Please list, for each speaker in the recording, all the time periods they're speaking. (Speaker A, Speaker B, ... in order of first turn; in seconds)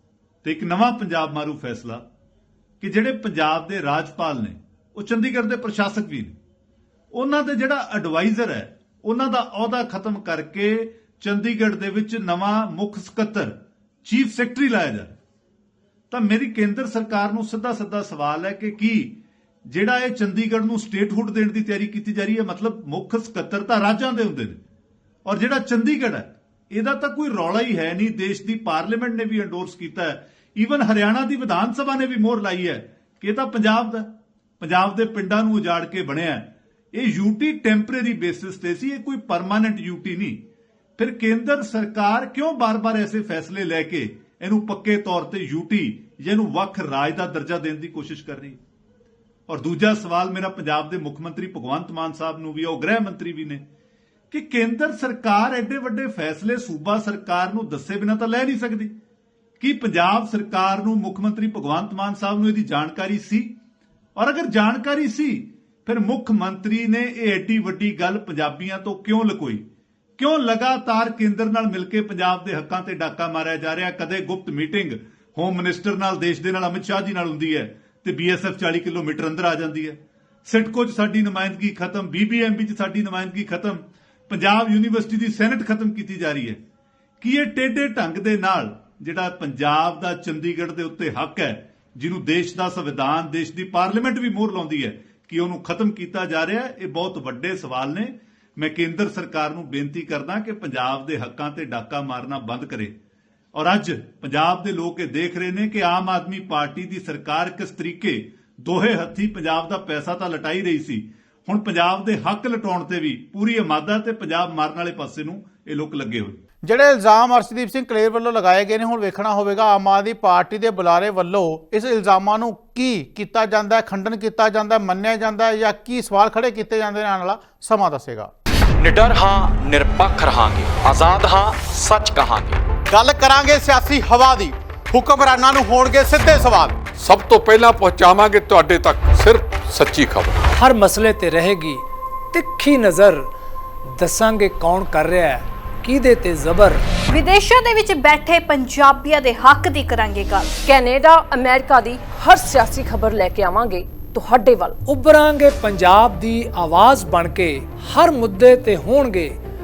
Speaker A: 0.4-2.0, 2.8-6.3, 7.1-13.5, 14.1-15.1, 16.1-19.2, 19.7-24.6, 25.2-34.1, 34.6-40.4, 41.0-48.6, 49.5-53.6, 54.3-58.9, 59.6-63.5, 64.2-69.6, 70.2-86.6, 87.2-102.9, 103.5-116.4
Speaker B: 116.7-128.3, 132.9-136.8
Speaker C: 128.8-132.6
Speaker D: 137.0-140.4
Speaker E: 140.5-143.3, 143.9-146.8, 154.8-159.3
Speaker F: 147.1-150.6
Speaker G: 150.6-154.8